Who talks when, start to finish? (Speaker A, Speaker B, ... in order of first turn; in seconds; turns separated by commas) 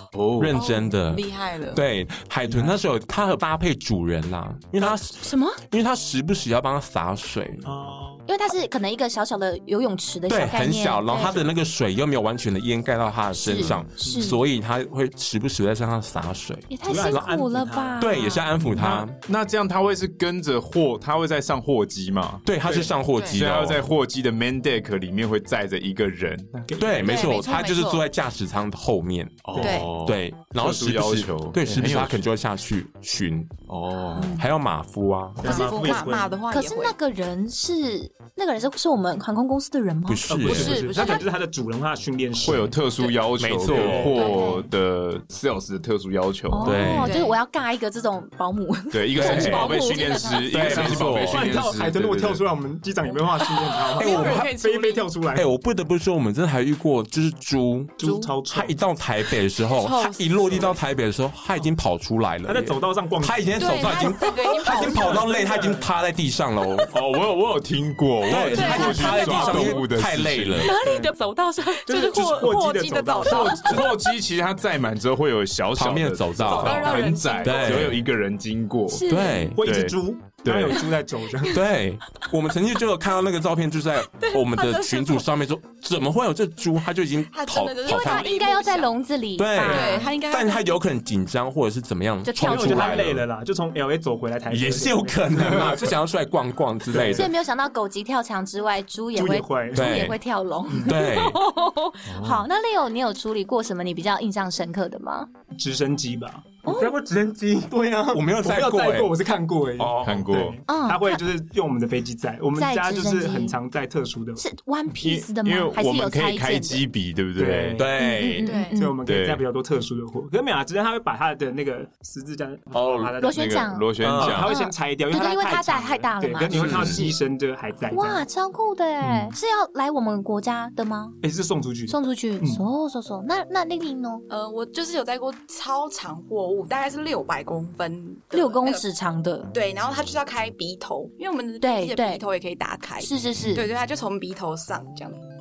Speaker A: 0.1-0.6, Speaker B: 0.4-7.7, Speaker C: 0.5-1.8, Speaker D: 2.5-2.8, Speaker E: 5.1-5.6, Speaker D: 7.6-8.2, Speaker E: 8.3-11.5, Speaker B: 10.3-17.2, Speaker E: 13.3-14.4, Speaker D: 14.0-14.3, Speaker E: 16.7-18.5, Speaker D: 16.9-18.1, Speaker B: 18.0-19.2, Speaker A: 18.7-26.7, Speaker B: 22.4-23.9, Speaker C: 23.1-23.4, Speaker D: 26.7-27.2, Speaker B: 26.8-33.6, Speaker C: 27.0-28.1, Speaker A: 29.5-32.3, Speaker D: 29.6-29.9, Speaker C: 29.6-29.9, Speaker A: 33.7-34.4, Speaker E: 34.2-34.4, Speaker B: 34.2-35.6, Speaker D: 35.4-36.4, Speaker C: 35.4-37.0, Speaker E: 35.5-41.2, Speaker B: 40.1-40.9, Speaker D: 40.3-43.1, Speaker C: 40.5-41.3, Speaker A: 42.4-47.0, Speaker B: 43.4-44.2, Speaker D: 43.6-44.3, Speaker E: 44.1-44.7, Speaker E: 46.5-50.7, Speaker B: 46.6-47.1, Speaker C: 47.0-47.4, Speaker A: 48.9-52.5, Speaker B: 49.1-49.8, Speaker C: 49.5-50.5, Speaker B: 50.5-51.6, Speaker D: 50.7-55.5, Speaker C: 53.4-55.1, Speaker B: 54.0-54.5, Speaker B: 55.3-66.9, Speaker D: 58.0-58.8, Speaker C: 58.0-58.3, Speaker C: 59.7-60.8, Speaker D: 62.5-64.1, Speaker C: 63.6-65.6, Speaker D: 64.7-65.9, Speaker A: 66.9-70.7, Speaker B: 68.3-70.8, Speaker C: 68.5-69.9, Speaker E: 68.7-69.6, Speaker C: 70.6-73.8, Speaker D: 70.8-71.1, Speaker D: 71.9-73.8, Speaker A: 73.2-79.1, Speaker B: 73.5-73.8, Speaker B: 75.8-78.0, Speaker C: 76.4-77.9, Speaker E: 78.9-79.5, Speaker B: 79.1-79.6, Speaker D: 79.5-81.7, Speaker A: 79.6-80.9, Speaker B: 81.5-88.3, Speaker C: 84.2-85.2, Speaker C: 87.3-89.0, Speaker E: 87.9-90.1, Speaker B: 89.4-93.2, Speaker C: 89.6-90.8, Speaker E: 92.2-93.1, Speaker D: 92.4-95.9, Speaker B: 94.5-97.3, Speaker D: 96.9-97.3, Speaker E: 97.1-105.3, Speaker D: 99.1-100.0, Speaker B: 99.7-100.2, Speaker D: 100.7-101.0, Speaker B: 100.8-101.4, Speaker A: 102.1-102.5, Speaker D: 105.5-114.4, Speaker E: 106.7-107.0, Speaker B: 106.9-107.1, Speaker B: 108.1-109.2, Speaker B: 109.8-110.3, Speaker A: 110.0-110.6, Speaker E: 110.7-111.2, Speaker E: 112.5-113.6, Speaker E: 114.4-116.8, Speaker A: 115.0-118.3, Speaker D: 117.4-117.9, Speaker B: 117.8-118.5, Speaker E: 118.0-119.0, Speaker C: 118.4-118.8, Speaker D: 118.7-123.6, Speaker A: 119.0-119.4, Speaker B: 122.7-123.2, Speaker E: 123.2-127.2, Speaker A: 123.3-124.5, Speaker B: 124.0-124.5, Speaker D: 124.2-128.3, Speaker B: 126.5-127.1, Speaker E: 127.9-131.2, Speaker D: 129.0-129.3, Speaker D: 131.2-132.6, Speaker E: 131.9-134.2, Speaker C: 134.3-138.9, Speaker E: 138.3-139.5, Speaker C: 139.5-145.2, Speaker E: 141.6-142.2, Speaker E: 143.0-143.7